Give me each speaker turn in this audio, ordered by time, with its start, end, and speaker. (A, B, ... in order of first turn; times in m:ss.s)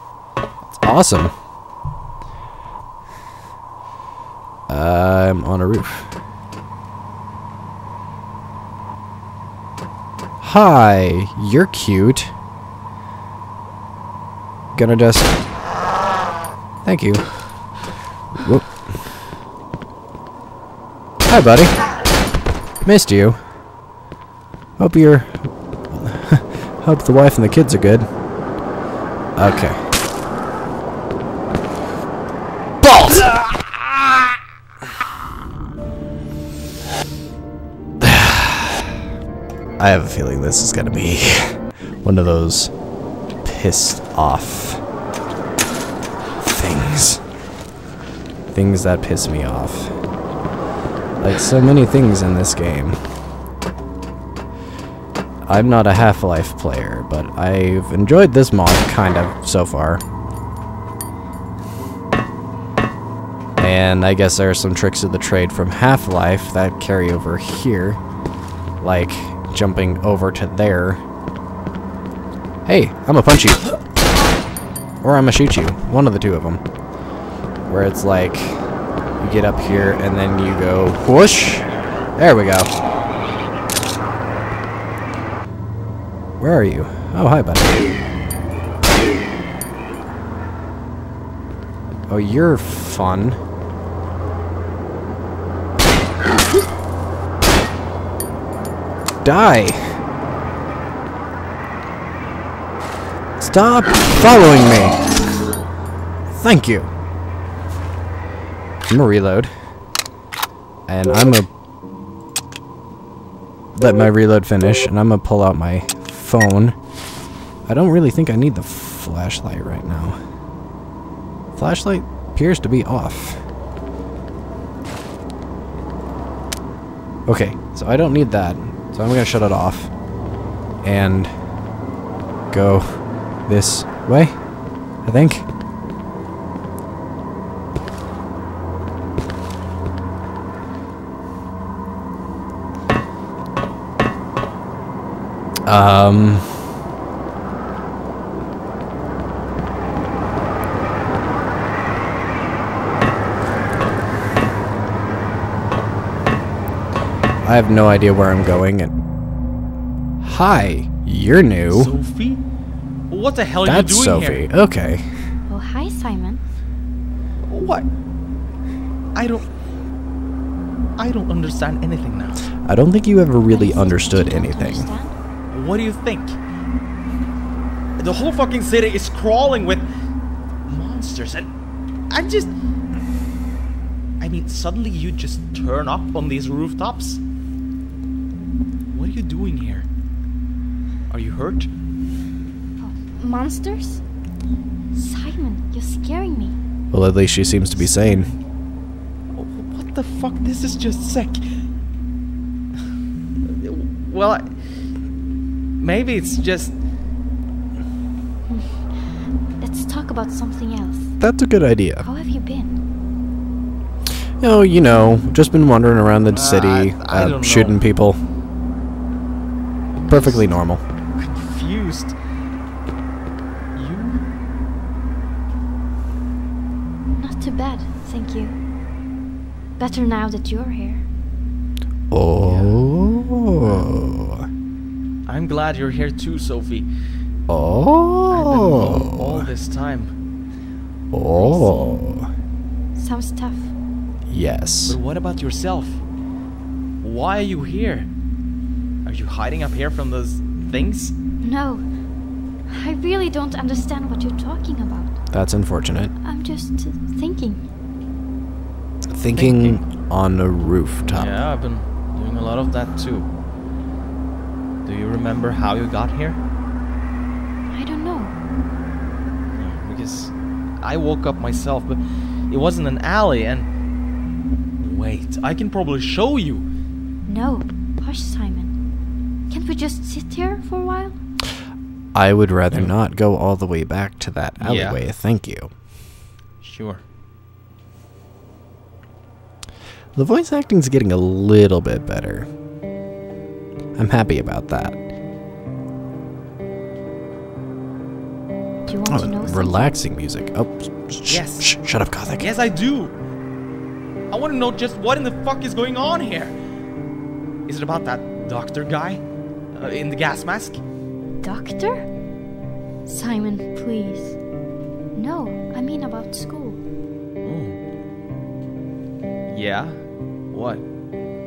0:00.7-0:01.3 A
0:04.7-0:06.1 A
0:10.4-0:12.3 A
0:14.8-0:15.3 A
0:16.8-0:17.3 A
0:18.4-0:19.0 A
0:21.3-0:21.8 A
0:22.8-0:23.4 A
0:24.8-0:28.1 A
0:29.4-0:29.8 A
0:32.8-0:33.8 A
0:38.0-0:38.9 A
0:39.8-0:42.7 A
0:43.4-0:44.8 A
0:46.4-0:47.2 A
0:48.5-0:49.9 A
0:51.2-0:53.0 A
0:55.5-1:00.0 A
1:03.6-1:08.0 A
1:08.8-1:11.0 A
1:12.7-1:13.7 A
1:15.0-1:16.6 A
1:17.7-1:18.6 A
1:19.2-1:22.7 A
1:26.4-1:27.8 A
1:32.1-1:33.4 A
1:39.2-1:39.8 A
1:43.4-1:45.0 A
1:46.3-1:46.9 A
1:48.9-1:49.5 A
1:50.9-1:51.5 A
1:53.8-1:56.8 A
1:57.7-2:00.2 A
2:01.5-2:03.4 A
2:07.3-2:09.9 A
2:10.8-2:11.3 A
2:12.5-2:14.4 A
2:15.0-2:15.5 A
2:25.7-2:26.5 A
2:37.4-2:38.9 A
2:40.2-2:41.9 A
2:41.7-2:42.4 B
2:43.1-2:44.5 B
2:43.6-2:45.0 A
2:45.5-2:46.4 C
2:47.5-2:47.9 B
2:49.2-2:49.5 B
2:51.0-2:52.4 B
2:52.7-2:54.9 A
2:53.5-2:55.2 C
2:55.5-2:56.4 B
2:58.0-2:59.8 B
3:00.7-3:01.5 B
3:02.1-3:02.5 B
3:04.2-3:07.2 B
3:08.9-3:09.9 B
3:11.1-3:11.7 B
3:12.8-3:14.0 C
3:14.9-3:16.6 C
3:16.9-3:18.3 A
3:19.3-3:21.4 B
3:23.4-3:24.5 B
3:25.8-3:26.8 B
3:28.5-3:31.2 C
3:31.2-3:32.1 A
3:32.0-3:32.8 C
3:34.4-3:38.2 A
3:36.3-3:37.8 B
3:40.0-3:40.5 B
3:40.1-3:40.8 A
3:41.2-3:42.2 B
3:43.7-3:44.2 B
3:47.2-3:48.6 C
3:49.8-3:51.0 C
3:52.1-3:54.5 A
3:52.4-3:52.8 B
3:53.6-3:53.9 B
3:55.3-3:56.9 B
3:57.5-3:59.5 A
3:58.3-4:00.1 B
4:01.1-4:02.3 A
4:01.4-4:02.0 C
4:03.0-4:03.7 C
4:04.3-4:05.0 A
4:04.9-4:06.0 B
4:07.0-4:08.1 B
4:09.0-4:11.2 B
4:11.4-4:11.8 C
4:12.7-4:15.2 C
4:15.3-4:16.1 A
4:16.2-4:17.7 C
4:19.1-4:21.3 A
4:19.3-4:19.8 B
4:21.0-4:23.3 B
4:24.8-4:26.4 B
4:27.7-4:28.4 C
4:29.6-4:33.7 B
4:34.8-4:36.7 B
4:37.3-4:38.8 C
4:39.5-4:41.2 C
4:42.1-4:45.7 A
4:44.6-4:45.1 B
4:46.6-4:47.0 B
4:50.2-4:52.5 A
4:54.0-4:55.0 A
4:58.9-4:59.9 C
4:59.0-5:02.5 A
5:01.3-5:01.8 B
5:02.4-5:03.2 B
5:04.3-5:06.6 B
5:07.7-5:09.2 B
5:09.8-5:10.8 B
5:11.4-5:12.0 C
5:13.0-5:14.4 C
5:15.2-5:16.8 C
5:17.4-5:17.8 B
5:19.5-5:20.8 B